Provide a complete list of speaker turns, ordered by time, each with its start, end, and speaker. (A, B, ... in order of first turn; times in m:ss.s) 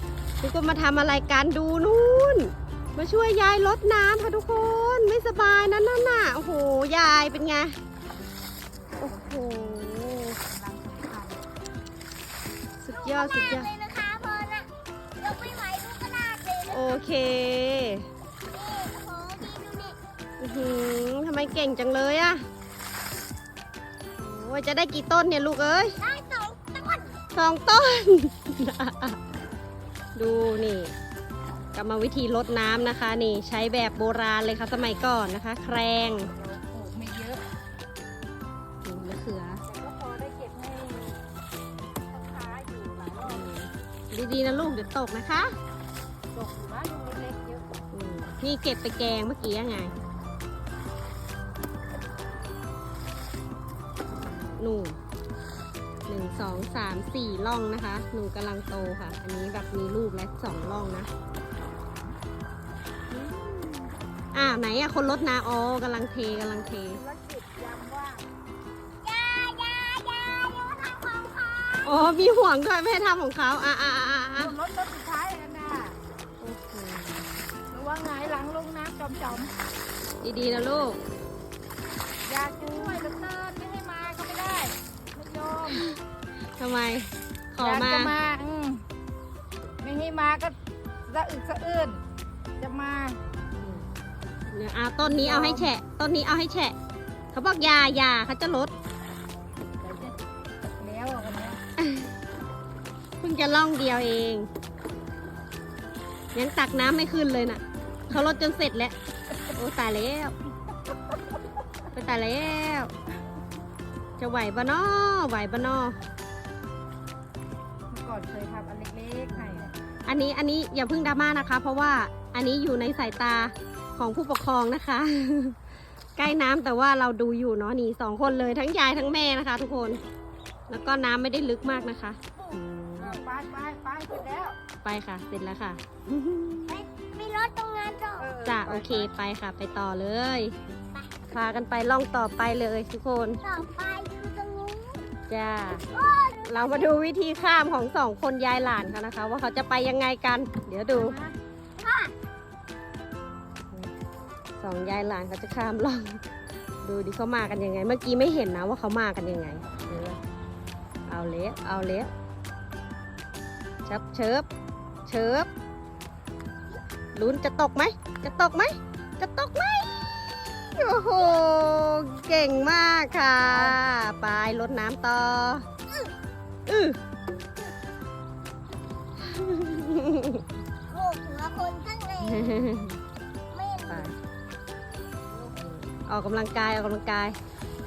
0:00.4-0:07.8 A
0:09.0-0:10.4 A
0:10.4-0:11.5 B
0:12.8-0:13.7 A
0:12.9-0:17.0 C
0:16.7-0:18.1 A
0:18.5-0:20.0 C
0:20.4-0:22.4 A
0:24.2-0:26.0 A
0:26.0-0:27.2 C
0:27.3-0:29.2 A
0:30.2-0:30.9 A
0:31.7-0:36.3 A
0:36.3-0:37.4 B
0:38.8-0:39.6 A
0:39.7-0:41.2 B
0:42.1-0:43.5 B
0:43.2-0:45.5 A
0:46.3-0:47.7 B
0:47.9-0:49.9 A
0:54.2-0:55.0 A
0:56.1-1:01.1 A
1:03.1-1:07.0 A
1:06.6-1:08.2 B
1:09.0-1:12.0 C
1:11.8-1:14.5 A
1:14.4-1:16.0 B
1:16.4-1:17.3 A
1:17.7-1:19.5 B
1:20.2-1:21.0 A
1:22.2-1:25.8 B
1:25.7-1:26.0 A
1:26.6-1:28.1 A
1:27.6-1:28.8 B
1:29.8-1:30.6 B
1:31.1-1:32.0 B
1:32.6-1:33.2 B
1:33.6-1:33.8 A
1:34.5-1:36.8 A
1:35.0-1:35.8 B
1:37.3-1:38.7 A
1:39.8-1:41.6 B
1:41.8-1:42.1 A
1:43.2-1:44.5 A
1:46.4-1:49.0 A
1:49.5-1:50.3 A
1:51.9-1:52.9 A
1:54.2-1:56.0 A
1:57.9-1:59.7 B
1:59.3-2:05.6 A
2:06.2-2:10.0 A
2:10.7-2:13.2 A
2:12.4-2:14.6 B
2:14.8-2:16.8 A
2:16.7-2:18.3 C
2:18.2-2:19.1 B
2:18.4-2:20.6 A
2:21.3-2:23.4 A
2:23.4-2:25.0 C
2:25.3-2:25.8 A
2:25.9-2:26.9 C
2:26.5-2:31.2 A
2:30.9-2:31.4 B
2:31.8-2:32.1 C
2:34.6-2:36.2 A
2:36.8-2:40.2 A
2:41.1-2:42.1 A
2:43.8-2:44.5 A
2:45.1-2:45.5 A
2:47.2-2:55.6 A
2:53.5-2:53.8 B
2:55.9-2:56.1 C
2:56.7-2:57.0 A
2:59.2-3:00.4 A
3:00.9-3:02.7 C
3:02.2-3:03.0 A
3:03.5-3:04.1 C
3:03.9-3:04.1 A
3:05.6-3:07.4 A